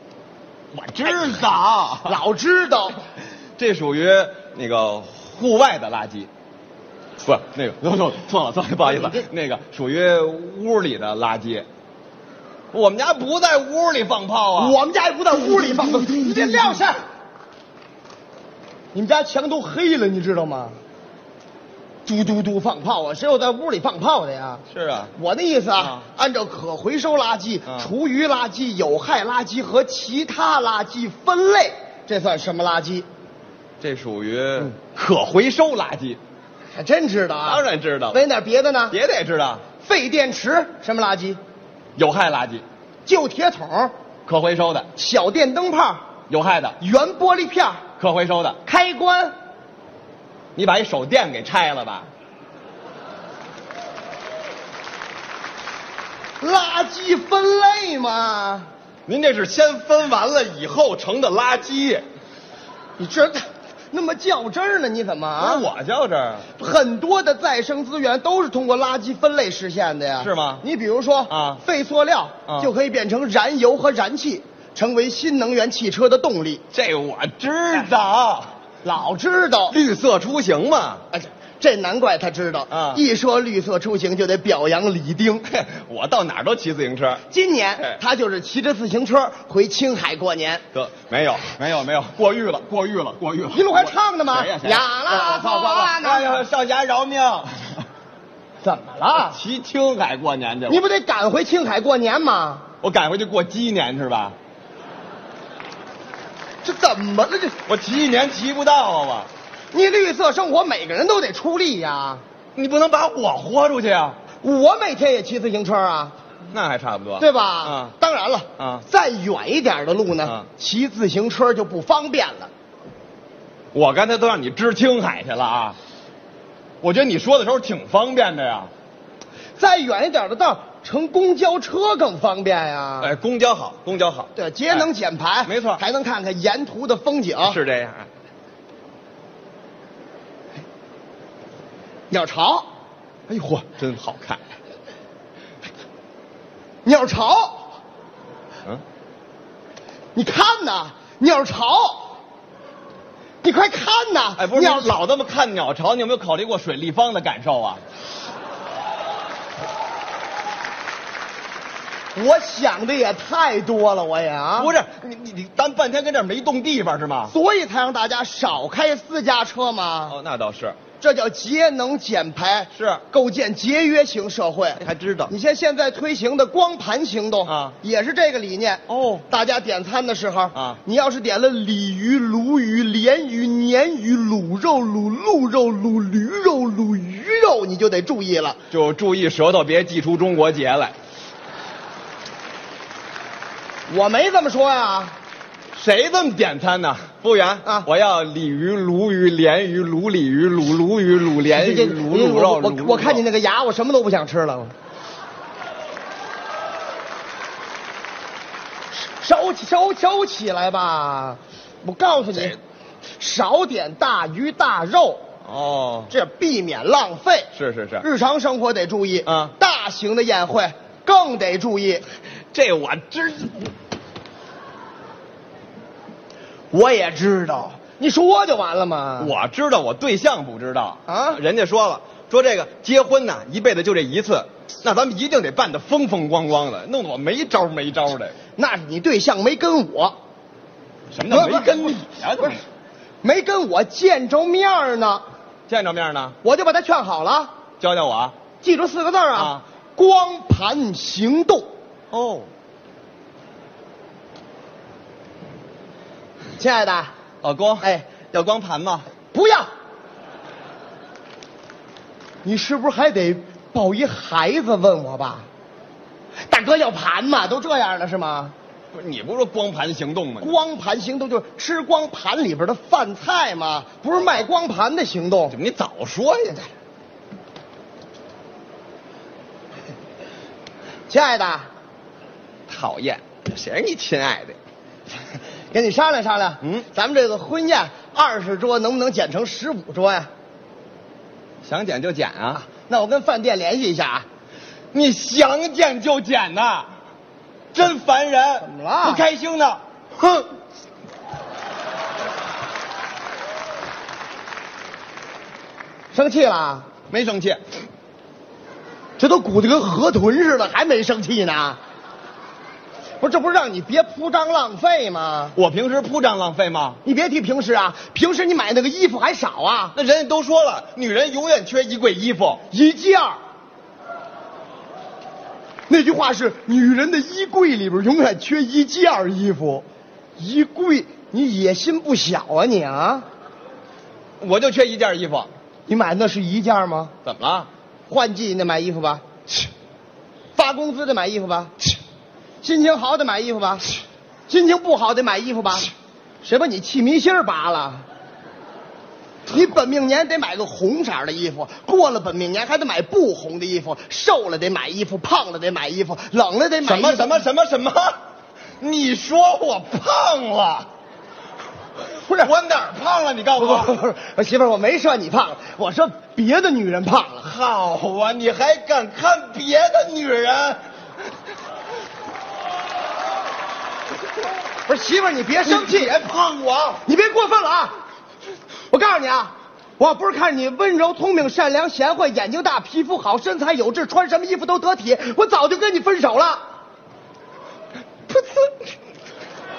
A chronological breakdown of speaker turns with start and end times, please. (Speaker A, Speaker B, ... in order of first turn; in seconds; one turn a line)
Speaker A: 0.7-2.2
Speaker B: 2.0-3.0
Speaker A: 3.6-6.3
Speaker A: 7.2-11.7
Speaker B: 8.8-9.2
Speaker A: 12.7-14.8
Speaker B: 14.6-17.0
Speaker B: 18.9-20.8
Speaker B: 22.0-24.6
Speaker A: 24.7-25.1
Speaker B: 25.1-33.1
Speaker A: 25.8-26.1
Speaker A: 33.8-36.2
Speaker B: 36.7-39.0
Speaker A: 37.4-38.2
Speaker A: 38.9-39.6
Speaker B: 39.8-41.4
Speaker A: 42.0-42.6
Speaker B: 43.0-43.9
Speaker A: 44.2-44.9
Speaker B: 44.9-46.0
Speaker A: 46.3-46.8
Speaker B: 46.8-47.8
Speaker A: 48.0-48.6
Speaker B: 48.6-49.3
Speaker A: 50.5-52.1
Speaker B: 56.4-58.7
Speaker A: 59.1-62.0
Speaker B: 63.0-65.7
Speaker A: 65.4-66.5
Speaker B: 66.5-76.6
Speaker A: 70.2-70.6
Speaker A: 71.3-71.6
Speaker A: 76.7-78.5
Speaker B: 78.8-79.8
Speaker A: 79.7-81.0
Speaker B: 81.1-85.5
Speaker A: 82.7-83.0
Speaker A: 85.4-87.2
Speaker B: 87.3-90.6
Speaker A: 90.7-97.8
Speaker B: 93.5-96.4
Speaker B: 98.6-99.4
Speaker A: 99.2-100.8
Speaker B: 100.7-102.6
Speaker A: 102.8-104.3
Speaker B: 106.6-107.6
Speaker A: 107.7-109.3
Speaker B: 109.7-112.2
Speaker A: 112.5-114.2
Speaker B: 114.4-116.1
Speaker A: 116.5-117.9
Speaker B: 117.2-122.5
Speaker A: 118.6-118.8
Speaker A: 123.7-125.8
Speaker A: 126.8-128.7
Speaker B: 129.6-133.1
Speaker A: 133.0-134.9
Speaker B: 134.3-137.6
Speaker A: 135.4-135.8
Speaker A: 137.4-138.1
Speaker B: 142.1-142.7
Speaker A: 143.3-144.4
Speaker B: 146.8-147.7
Speaker B: 150.1-152.2
Speaker B: 153.4-154.9
Speaker A: 154.4-157.8
Speaker B: 162.1-164.7
Speaker A: 164.6-167.3
Speaker B: 167.3-170.2
Speaker A: 170.1-170.8
Speaker B: 171.0-188.6
Speaker A: 172.7-173.0
Speaker A: 174.8-175.3
Speaker A: 177.4-177.8
Speaker A: 178.9-179.2
Speaker A: 180.5-180.8
Speaker A: 188.7-190.9
Speaker B: 193.9-195.1
Speaker A: 195.7-203.2
Speaker B: 201.5-204.7
Speaker B: 208.9-212.6
Speaker A: 212.3-212.6
Speaker B: 213.2-215.2
Speaker A: 215.4-216.1
Speaker B: 216.1-222.0
Speaker A: 217.5-218.0
Speaker A: 219.2-219.5
Speaker A: 222.5-223.7
Speaker B: 226.7-229.3
Speaker A: 229.2-238.3
Speaker B: 231.1-231.4
Speaker B: 238.6-240.2
Speaker A: 241.1-242.6
Speaker B: 241.3-242.6
Speaker B: 243.2-245.2
Speaker A: 245.7-246.3
Speaker B: 246.4-247.5
Speaker A: 247.8-248.3
Speaker B: 248.6-251.7
Speaker A: 249.3-249.6
Speaker A: 252.1-252.5
Speaker B: 256.6-257.1
Speaker A: 257.4-259.1
Speaker B: 257.8-258.1
Speaker B: 259.3-259.7
Speaker B: 262.4-265.5
Speaker B: 266.5-268.5
Speaker A: 268.9-270.5
Speaker B: 270.4-275.6
Speaker A: 275.5-276.7
Speaker B: 281.1-281.7
Speaker A: 282.7-284.6
Speaker B: 285.7-290.3
Speaker A: 291.6-292.6
Speaker B: 292.6-294.2
Speaker A: 294.9-296.9
Speaker A: 297.7-300.4
Speaker B: 298.6-299.2
Speaker B: 306.1-306.9
Speaker A: 307.1-307.6
Speaker B: 309.2-311.8
Speaker B: 313.2-315.5
Speaker A: 315.6-317.0
Speaker B: 317.0-319.9
Speaker A: 319.9-322.6
Speaker B: 322.7-323.4
Speaker B: 325.9-329.9
Speaker B: 330.4-333.2
Speaker A: 334.4-335.5
Speaker B: 335.9-337.1
Speaker A: 337.2-337.7
Speaker B: 338.1-339.2
Speaker B: 340.5-341.7
Speaker B: 342.6-343.9
Speaker B: 344.5-345.9
Speaker B: 346.4-348.0
Speaker B: 349.5-357.4
Speaker A: 356.8-358.1
Speaker A: 358.8-360.9
Speaker A: 362.2-364.0
Speaker B: 363.6-367.5
Speaker A: 367.4-370.8
Speaker B: 374.9-376.1
Speaker A: 375.6-377.0
Speaker B: 377.0-378.0
Speaker B: 378.9-386.6